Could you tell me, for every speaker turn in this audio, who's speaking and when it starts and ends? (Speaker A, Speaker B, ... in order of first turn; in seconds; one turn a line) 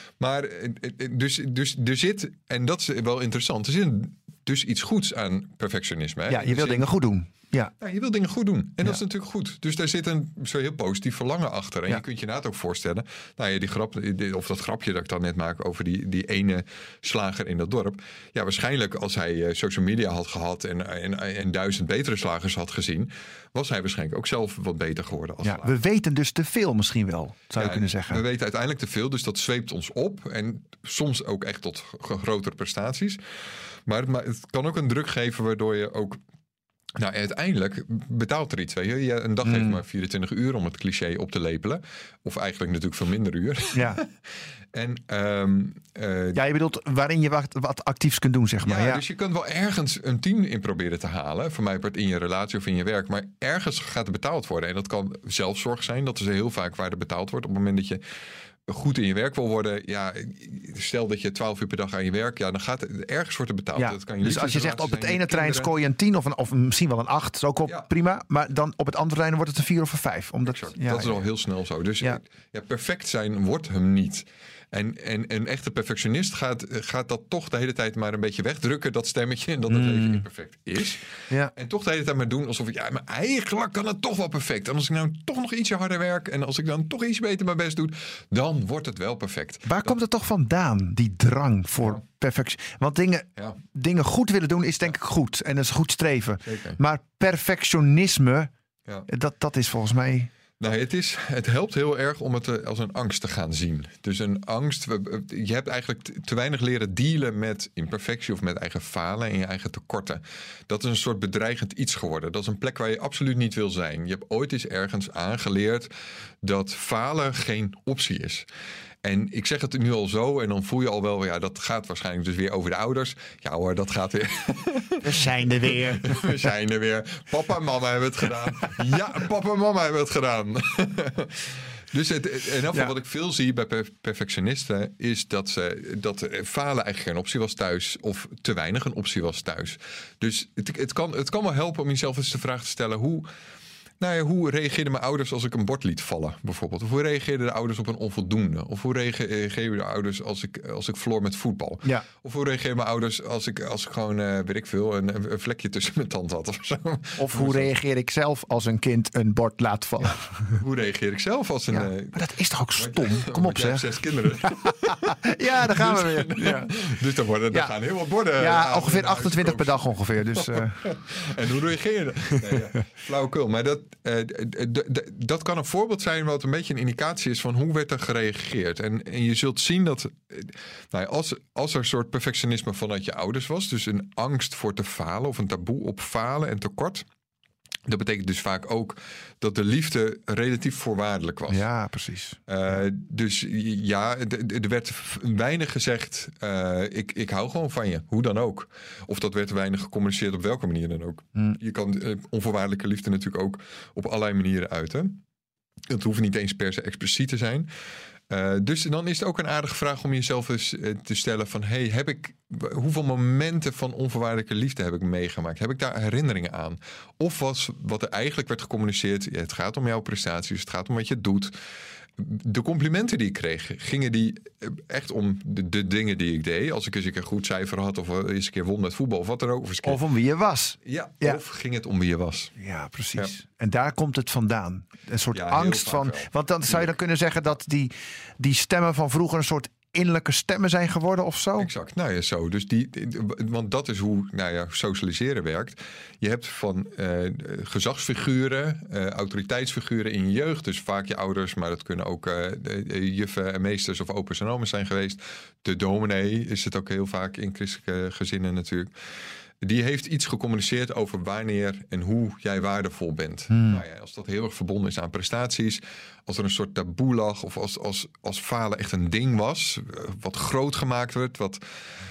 Speaker A: 0.2-6.9
Speaker B: 6.3-7.7
Speaker A: 7.8-25.7
Speaker B: 25.4-28.2
Speaker A: 27.6-33.2
Speaker A: 33.9-36.2
Speaker A: 37.0-44.1
Speaker B: 39.4-39.8
Speaker B: 43.7-44.0
Speaker A: 44.7-46.4
Speaker B: 46.3-49.0
Speaker A: 48.6-58.0
Speaker A: 58.7-65.7
Speaker B: 63.8-71.2
Speaker A: 70.5-81.0
Speaker B: 79.7-80.2
Speaker A: 81.5-90.0
Speaker B: 89.6-98.5
Speaker A: 96.4-96.8
Speaker B: 99.1-100.3
Speaker A: 100.6-115.9
Speaker A: 116.4-118.5
Speaker A: 119.0-143.3
Speaker B: 125.0-126.4
Speaker A: 144.0-157.7
Speaker B: 157.2-160.2
Speaker A: 160.0-162.2
Speaker B: 161.7-163.9
Speaker A: 162.8-187.1
Speaker B: 164.4-166.7
Speaker B: 168.4-170.9
Speaker A: 187.9-191.7
Speaker B: 191.5-192.4
Speaker A: 192.5-205.2
Speaker A: 205.9-207.7
Speaker A: 208.3-221.6
Speaker A: 222.2-230.0
Speaker B: 229.8-231.4
Speaker A: 230.8-232.5
Speaker B: 232.6-241.7
Speaker A: 235.3-236.9
Speaker A: 241.6-258.9
Speaker A: 259.6-271.6
Speaker B: 263.5-263.8